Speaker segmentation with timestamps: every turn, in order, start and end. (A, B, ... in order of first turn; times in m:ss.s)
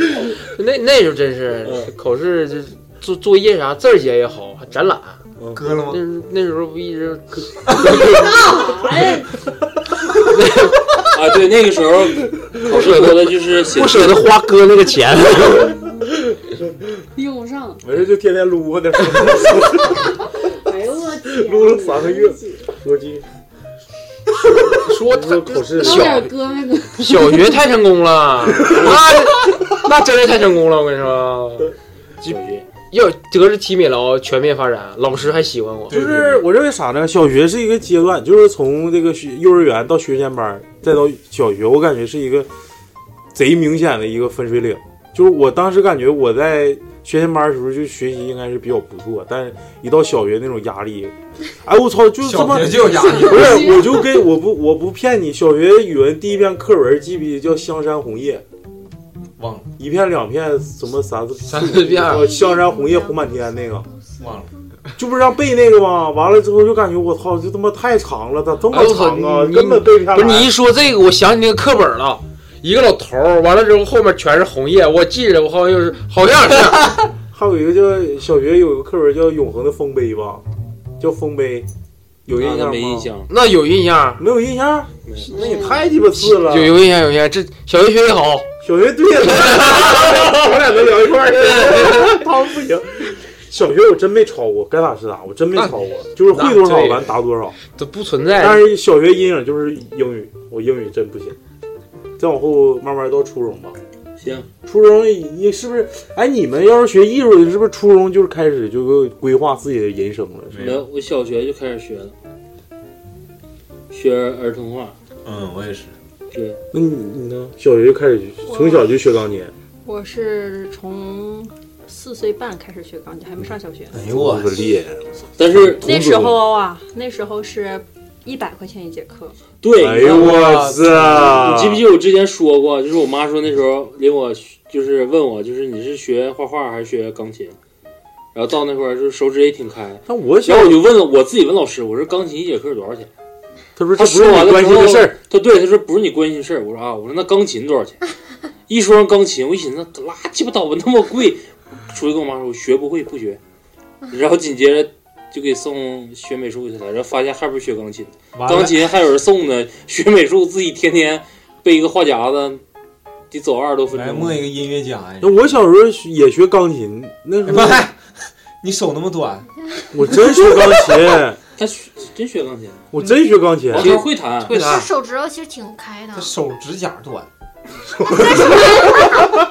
0:00.5-0:05.2 A
0:05.5-0:06.0 B
0:05.9-0:08.6 A
0:07.7-0:07.9 B
0:07.8-0:09.3 C
0:10.3-0:10.8 A
0:11.1-0:14.2 D
0:12.6-0:15.8 A
0:17.1-0:17.8 C
0:17.8-0:20.1 E
0:20.5-0:22.7 C
0:21.4-0:23.2 E
0:24.7-0:26.3 A
0:25.0-0:26.3 E
0:25.8-0:27.4 C
0:26.9-0:31.7 A
0:32.2-0:32.6 D
0:32.9-0:36.0 A
0:35.9-0:36.4 B
0:35.9-0:42.5 E
0:43.3-0:58.4 E
0:52.2-0:53.8 B
0:52.9-0:54.2 C
0:59.4-0:59.7 B
0:59.8-1:03.9 E
1:01.4-1:02.3 A
1:02.0-1:04.4 F
1:04.2-1:04.5 B
1:05.0-1:10.5 E
1:08.7-1:17.0 A
1:17.3-1:20.4 E
1:21.0-1:21.7 E
1:22.2-1:23.1 E
1:22.3-1:23.3 D
1:23.3-1:24.2 A
1:24.2-1:26.8 E
1:25.3-1:26.0 C
1:25.4-1:28.5 A
1:28.6-1:37.6 E
1:29.8-1:30.2 A
1:31.6-1:32.1 A
1:36.2-1:37.1 A
1:37.7-1:38.6 A
1:38.4-1:41.4 E
1:42.2-1:43.8 E
1:44.2-1:44.5 D
1:44.6-1:50.7 E
1:50.5-1:50.8 B
1:50.6-1:52.1 D
1:53.9-1:55.0 D
1:55.2-1:55.9 B
1:56.3-1:56.6 D
1:56.7-1:59.5 E
1:58.5-1:58.9 G
1:59.8-2:04.0 G
2:03.9-2:04.6 B
2:04.1-2:05.0 E
2:05.4-2:05.8 D
2:05.6-2:06.4 E
2:05.8-2:09.4 G
2:09.6-2:10.5 D
2:09.8-2:11.8 E
2:10.0-2:11.5 B
2:11.2-2:17.6 D
2:18.3-2:23.1 D
2:20.1-2:20.8 E
2:23.8-2:25.2 E
2:24.0-2:28.0 D
2:28.7-2:33.4 D
2:34.1-2:42.6 D
2:38.3-2:38.9 B
2:43.3-2:44.4 D
2:43.9-2:45.6 B
2:45.2-2:47.8 E
2:47.4-2:48.0 B
2:48.6-2:49.5 B
2:49.9-2:51.4 E
2:50.1-2:50.7 B
2:51.6-2:52.8 D
2:52.9-2:54.0 E
2:53.7-2:54.6 D
2:53.7-2:54.9 A
2:54.6-2:56.3 F
2:56.1-2:57.3 B
2:58.0-2:59.1 E
2:58.6-2:59.1 F